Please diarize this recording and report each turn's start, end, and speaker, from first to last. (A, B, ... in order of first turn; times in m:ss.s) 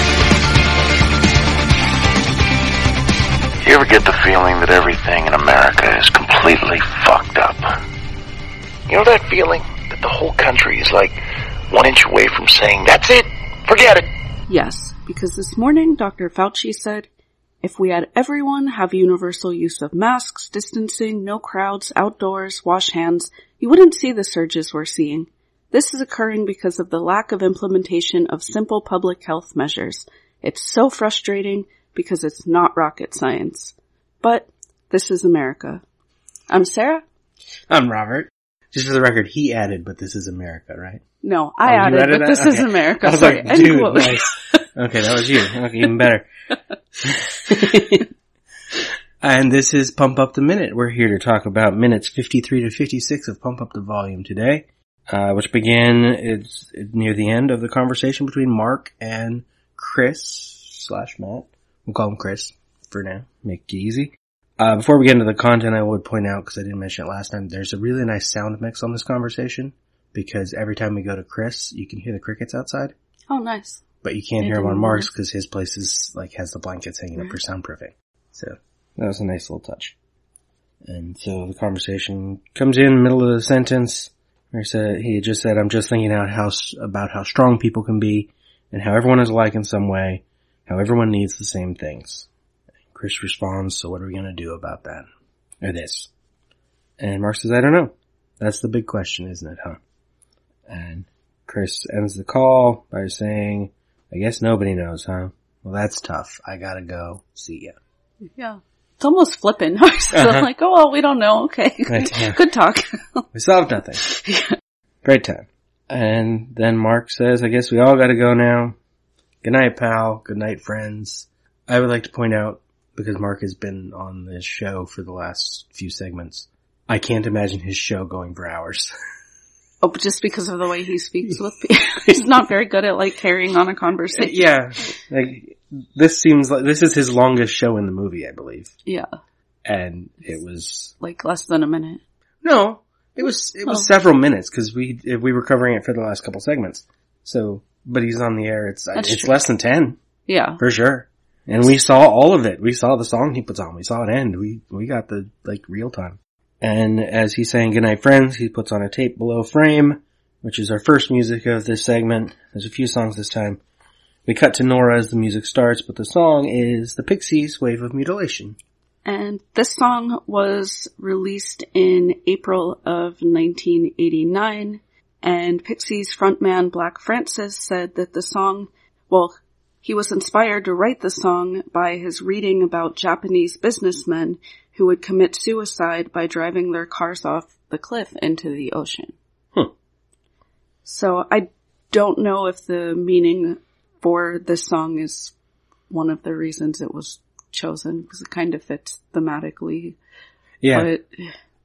0:03.6-0:07.8 A
0:08.9-0:14.1 A
0:14.5-0:17.1 B
0:17.6-0:35.8 B
0:36.5-0:37.0 B
0:37.7-0:41.0 C
0:41.2-0:44.6 B
0:41.6-0:46.3 C
0:47.0-0:48.0 C
0:49.2-1:12.9 C
1:13.3-1:13.8 B
1:14.0-1:19.9 C
1:14.4-1:15.1 B
1:20.8-1:32.3 C
1:32.9-1:35.1 C
1:35.6-1:36.1 C
1:37.0-1:39.8 C
1:40.7-1:47.8 C
1:48.4-1:53.2 B
1:50.1-1:50.5 C
1:51.9-1:52.4 C
1:53.3-1:54.0 C
1:54.0-1:54.6 B
1:55.0-1:58.8 C
1:59.4-2:08.9 C
2:09.8-2:14.5 B
2:14.1-2:18.7 C
2:19.6-2:20.9 C
2:21.0-2:22.0 B
2:22.4-2:30.0 C
2:28.9-2:29.4 B
2:30.3-2:30.6 B
2:30.6-2:43.6 C
2:44.2-2:48.6 C
2:49.0-3:09.1 B
3:10.8-3:15.3 B
3:15.9-3:20.0 B
3:20.6-3:20.9 C
3:20.7-3:21.3 B